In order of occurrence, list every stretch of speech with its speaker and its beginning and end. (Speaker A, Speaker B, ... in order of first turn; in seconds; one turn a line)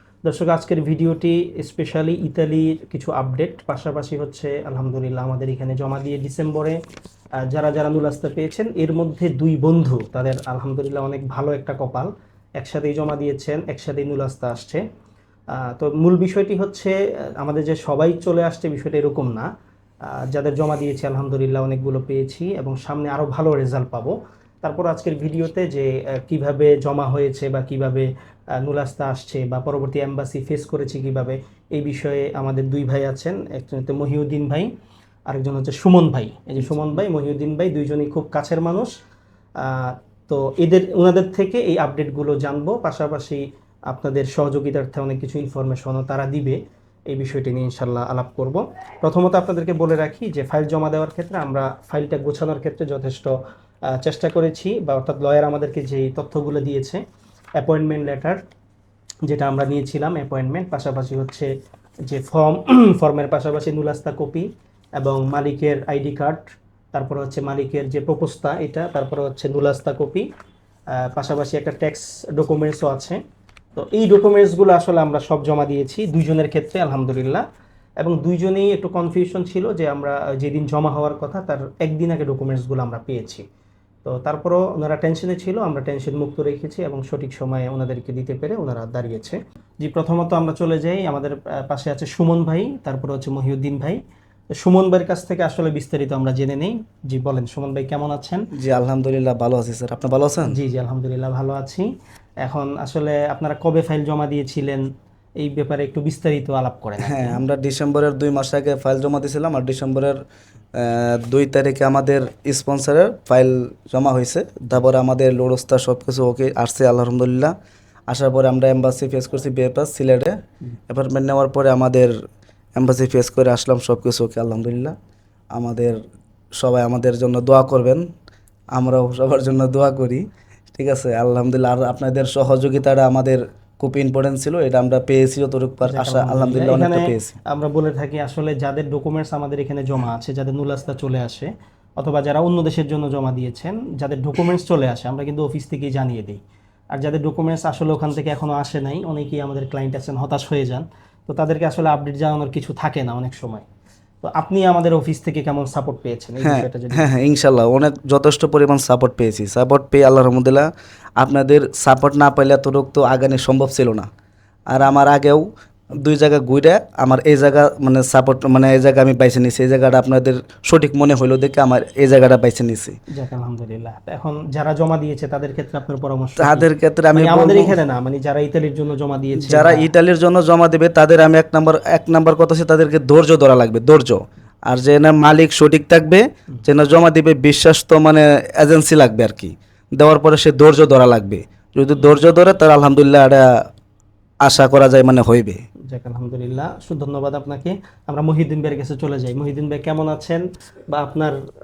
Speaker A: 0.2-6.8
Speaker A: 7.5-14.8
Speaker A: 15.6-19.5
Speaker A: 20.1-28.1
Speaker A: 28.6-34.7
Speaker A: 35.3-38.9
Speaker A: 39.6-46.6
Speaker A: 47.1-53.3
Speaker A: 54.0-57.0
Speaker A: 57.6-58.4
Speaker A: 59.3-61.5
Speaker A: 62.1-64.5
Speaker A: 65.0-66.4
Speaker A: 66.9-70.2
Speaker A: 71.0-73.2
Speaker A: 73.8-77.4
Speaker A: 78.0-83.4
Speaker A: 84.0-94.0
Speaker A: 94.5-98.4
Speaker B: 98.5-100.6
Speaker A: 100.5-101.9
Speaker A: 102.4-104.8
Speaker A: 105.4-107.4
Speaker B: 107.0-110.2
Speaker B: 110.8-117.5
Speaker B: 118.1-120.4
Speaker B: 120.9-122.1
Speaker B: 122.8-124.9
Speaker B: 125.5-126.0
Speaker B: 126.6-128.1
Speaker B: 128.7-130.2
Speaker B: 130.7-137.3
Speaker A: 135.9-146.4
Speaker A: 146.9-153.6
Speaker A: 154.2-157.1
Speaker B: 156.4-164.1
Speaker B: 164.7-172.9
Speaker A: 173.1-179.9
Speaker B: 176.4-177.7
Speaker B: 179.4-193.5
Speaker B: 194.4-195.6
Speaker A: 195.9-201.4